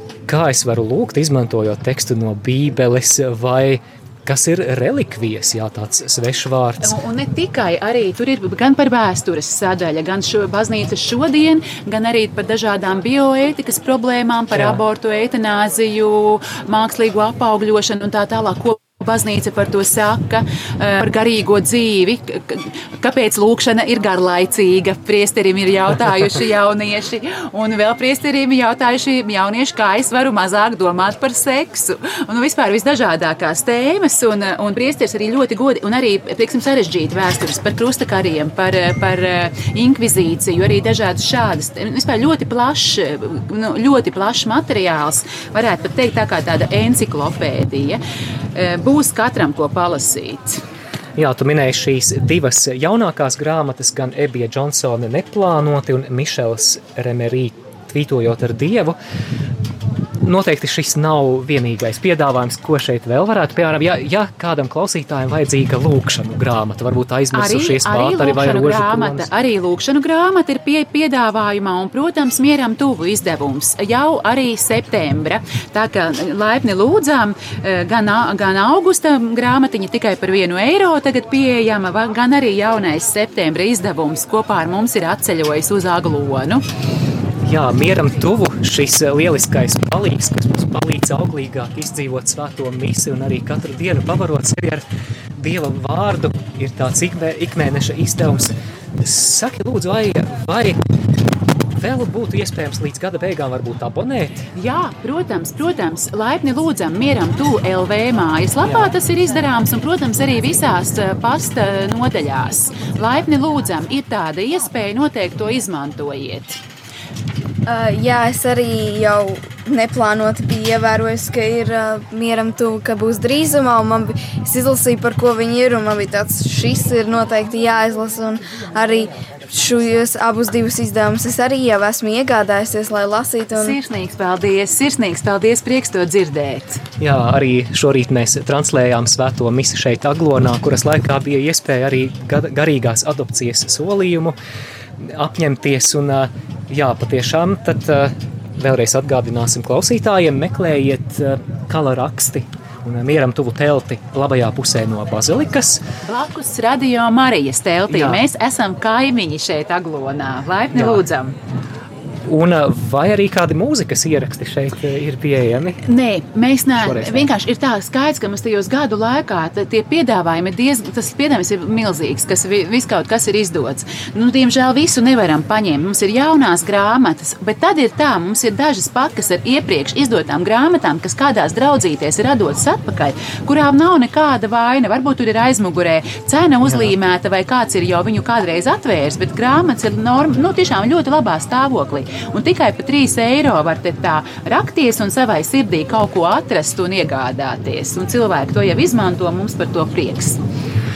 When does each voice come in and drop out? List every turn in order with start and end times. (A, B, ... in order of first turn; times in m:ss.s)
0:00.3-0:07.0 A
0:06.8-0:48.0 B
0:48.6-0:50.6 B
0:51.2-0:59.0 A
1:00.2-1:09.3 A
1:07.3-1:26.6 B
1:27.4-1:40.8 A
1:41.8-1:44.4 A
1:44.6-1:56.6 B
1:57.7-2:13.8 C
2:13.5-2:16.8 B
2:17.0-2:24.4 A
2:25.0-2:35.8 A
2:36.0-2:41.4 B
2:37.9-2:38.2 A
2:40.8-2:41.0 A
2:42.3-2:45.8 A
2:45.9-3:20.4 B
2:46.8-2:47.3 A